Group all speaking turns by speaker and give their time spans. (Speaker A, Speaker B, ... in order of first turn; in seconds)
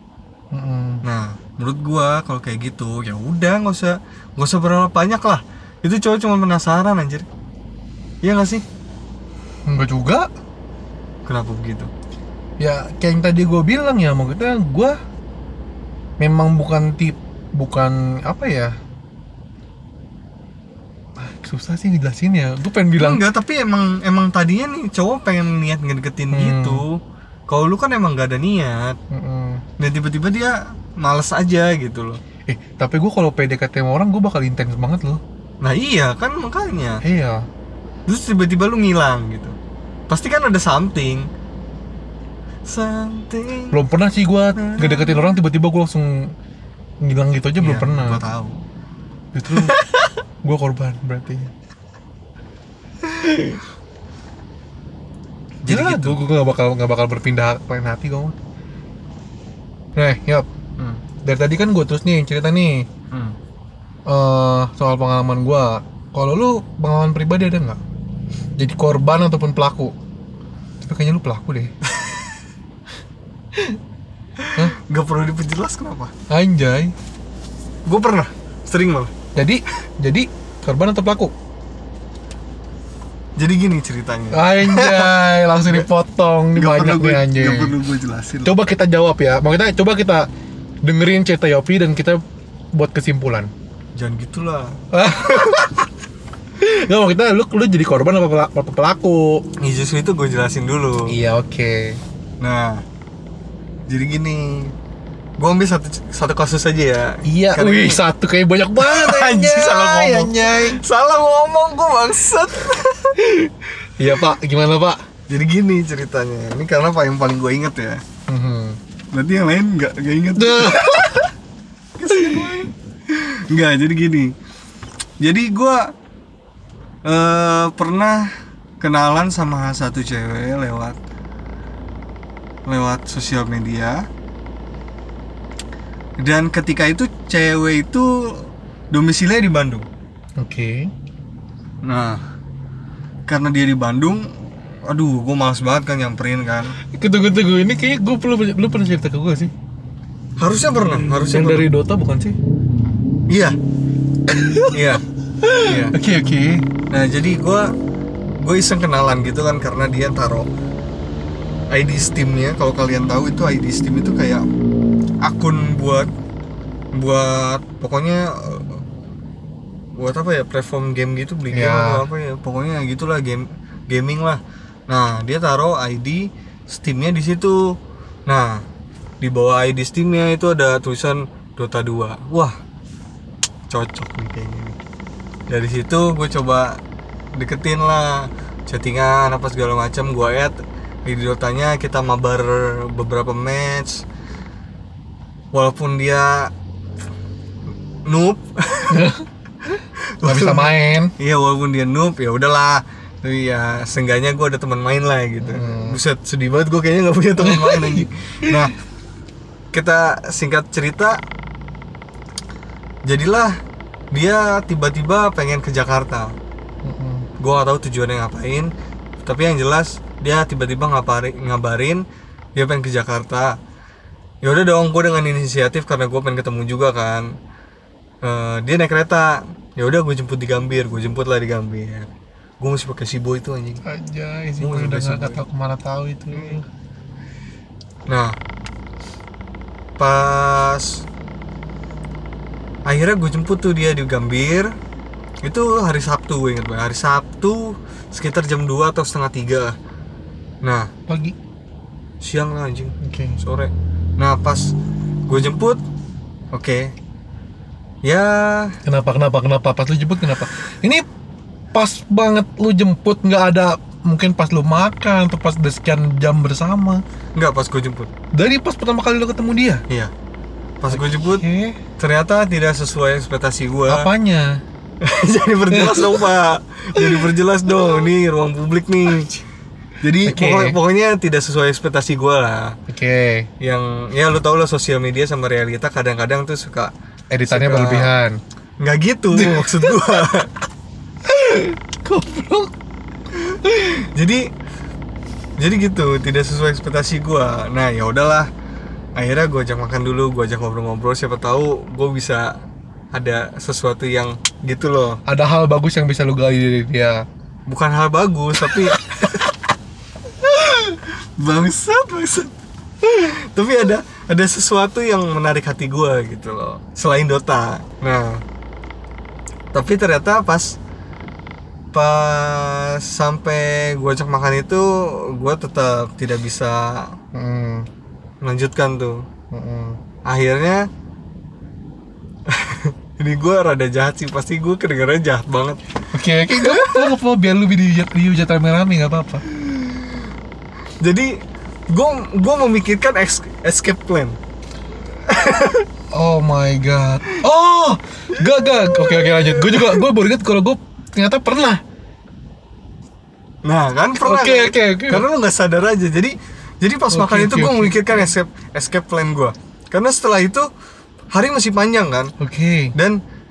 Speaker A: 0.5-1.0, 9.7-10.3, 12.6-15.0, 16.2-18.7, 21.2-23.2, 26.3-26.8, 29.1-29.6, 32.5-35.2, 37.0-37.5, 43.7-46.3, 47.0-48.2, 49.3-49.8, 50.4-51.5, 55.7-58.4, 60.0-60.5, 61.2-62.9, 64.1-67.8, 68.6-69.9, 70.8-71.7, 76.3-76.9, 79.4-81.3, 84.3-87.8, 88.5-90.3, 90.8-92.2, 92.8-93.5, 94.9-95.8, 96.6-99.4, 101.1-102.0, 107.2-110.8, 113.3-115.0, 118.3-118.8, 120.4-121.3, 122.2-122.4, 140.4-140.9, 146.9-149.5, 151.1-152.4, 154.3-154.8, 155.4-156.7, 171.5-172.1, 198.9-199.2, 200.2-201.1, 205.4-206.0, 207.4-208.7, 216.8-217.3, 233.8-236.7, 251.1-251.4, 253.0-253.4, 258.9-261.0, 261.7-267.0, 268.3-269.8, 270.9-271.8, 273.9-274.6, 275.7-276.3, 277.0-277.3, 280.2-280.8, 282.9-283.5, 287.3-288.4, 289.3-290.0, 291.3-292.7, 305.3-307.2, 308.6-308.9, 310.4-311.0, 327.3-327.9, 329.5-330.0, 336.1-339.4, 346.1-351.8, 354.2-355.3, 357.1-358.3, 362.4-362.9
Speaker B: 1.0-7.3, 8.2-8.6, 11.3-11.9, 23.0-29.0, 29.8-32.2, 35.6-37.0, 38.1-39.5, 40.1-41.3, 42.7-43.8, 44.6-45.3, 47.6-48.6, 49.5-50.1, 55.6-56.2, 63.1-63.4, 71.9-72.3, 74.5-76.1, 77.9-79.1, 83.4-85.9, 86.5-88.5, 94.0-95.6, 99.6-101.1, 102.4-102.8, 103.9-104.7, 105.4-108.0, 108.8-113.2, 115.3-118.0, 119.1-121.2, 122.0-124.3, 125.2-125.9, 127.0-131.0, 132.7-134.0, 136.2-139.9, 141.8-142.2, 143.3-144.3, 144.9-146.7, 150.4-151.7, 153.3-153.6, 154.7-155.0, 155.6-155.9, 156.9-157.7, 158.4-160.5, 161.7-164.4, 165.2-166.1, 166.9-168.8, 170.0-177.7, 178.3-178.6, 179.2-182.5, 183.7-184.8, 185.5-186.8, 187.3-194.1, 195.5-196.5, 198.1-199.1, 200.0-208.7, 209.7-211.2, 213.1-213.5, 214.1-216.3, 217.4-218.7, 219.2-222.0, 222.6-223.6, 224.4-227.3, 228.2-233.8, 234.6-235.4, 236.3-236.6, 238.1-238.3, 240.0-241.1, 242.9-244.7, 245.4-249.8, 250.6-250.9, 252.2-254.7, 255.3-255.8, 256.5-256.9, 258.1-258.8, 267.4-268.1, 270.8-271.4, 272.0-274.1, 275.0-279.4, 280.0-282.8, 283.6-286.9, 287.5-288.1, 288.8-290.5, 293.5-294.5, 295.6-298.5, 299.2-302.5, 303.1-305.2, 307.7-309.4, 311.4-318.4, 319.7-320.8, 321.9-327.2, 328.4-329.2, 330.3-330.9, 332.5-335.9, 336.5-337.1, 339.5-340.3, 341.0-341.4, 341.9-344.4, 345.3-345.9, 348.3-350.1, 353.6-360.7, 361.3-362.3, 362.9-363.2